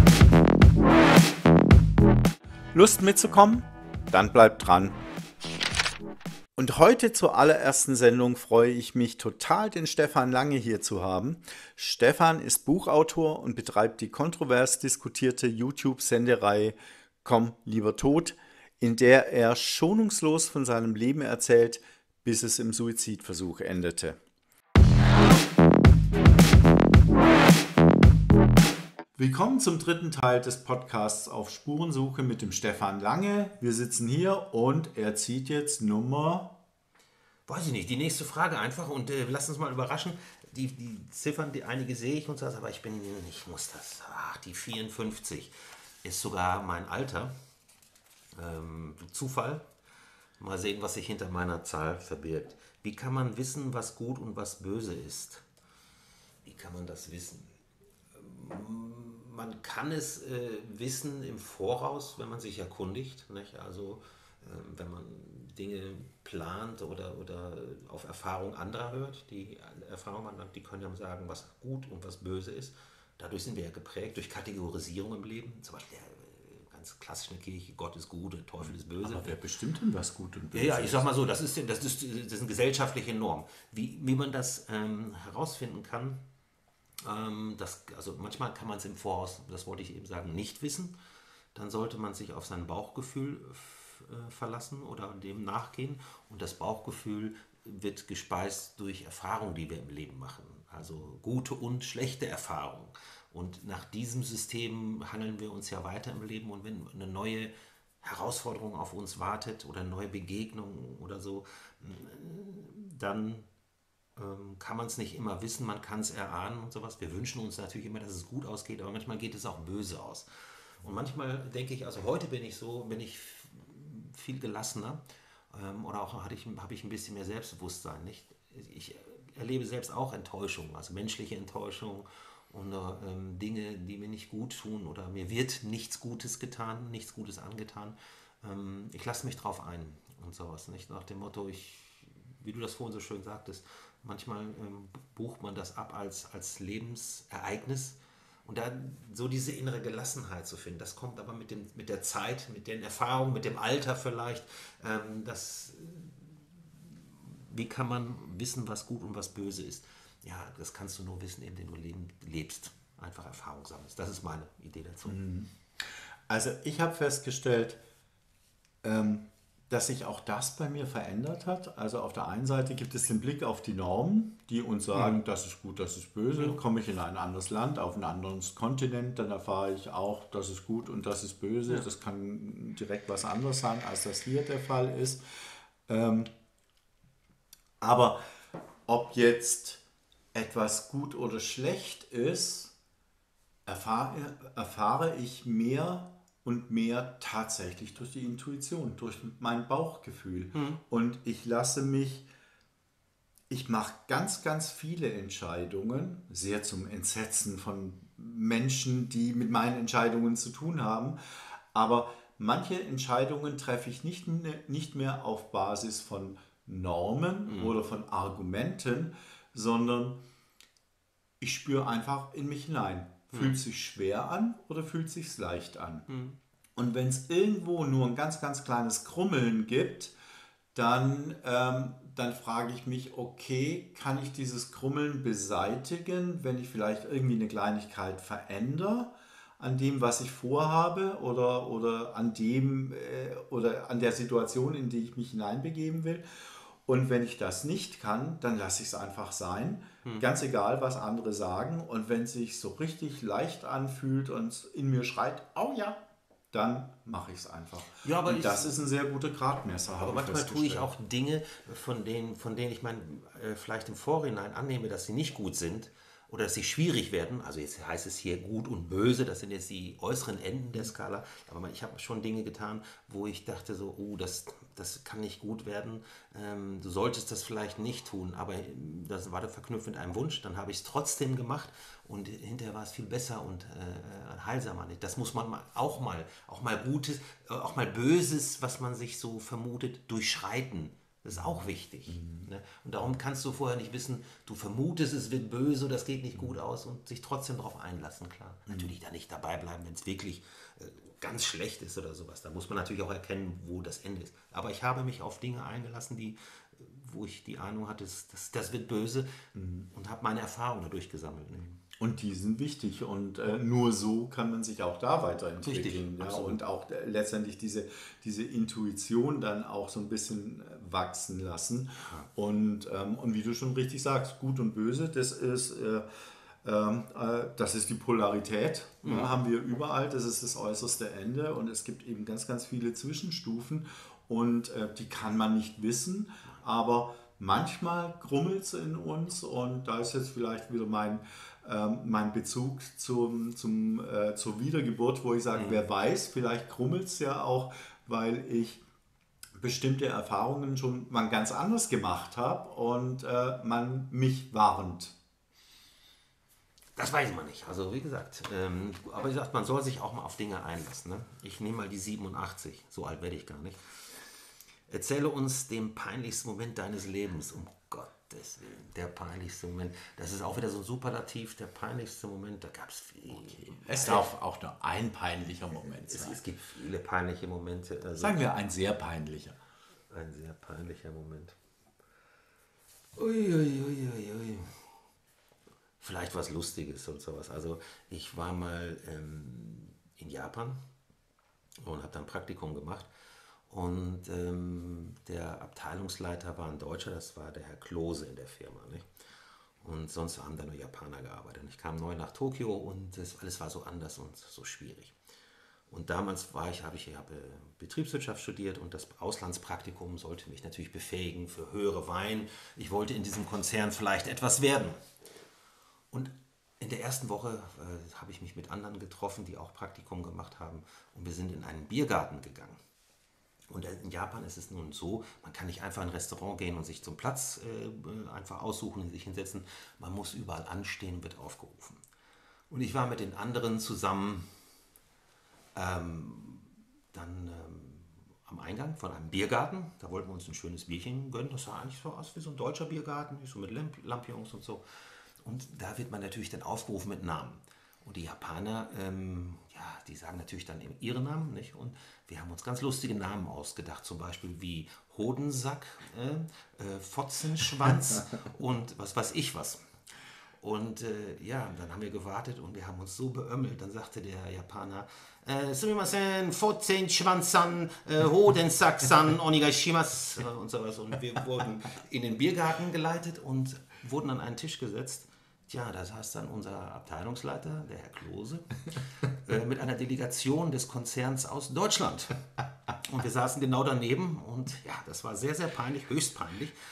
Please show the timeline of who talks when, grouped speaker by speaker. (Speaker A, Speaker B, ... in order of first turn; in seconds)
Speaker A: 2.7-5.0, 6.6-24.2, 29.2-36.5, 79.0-81.1, 165.1-167.8, 168.8-185.2, 185.9-186.3, 187.8-188.2, 188.9-189.8, 190.3-192.8, 193.7-202.3, 203.5-211.2, 211.7-220.2, 221.4-226.1, 226.8-230.1, 230.7-260.9, 292.1-292.5, 298.7-298.9, 309.6-309.9, 312.0-326.1, 326.6-348.8, 349.6-355.1, 373.4-376.4, 378.2-379.6
Speaker B: 37.5-45.5, 46.0-47.3, 48.4-49.7, 50.4-55.5, 56.5-57.5, 58.1-79.3, 80.5-86.2, 87.0-91.0, 91.5-113.5, 114.2-120.3, 120.8-165.2, 200.5-200.8, 217.5-217.8, 223.3-223.6, 226.1-226.4, 258.0-258.7, 260.0-309.4, 309.9-311.8, 315.6-316.6, 322.0-322.3, 329.0-329.3, 345.6-345.8, 357.0-363.8, 364.9-374.3, 375.9-378.5, 380.1-381.6, 383.1-384.8, 386.0-390.8, 391.8-393.1, 393.7-399.1, 399.8-405.1, 405.9-415.0, 416.1-422.8, 423.7-432.0, 432.7-434.5, 435.8-444.8, 445.4-459.8, 460.6-482.4, 482.9-486.8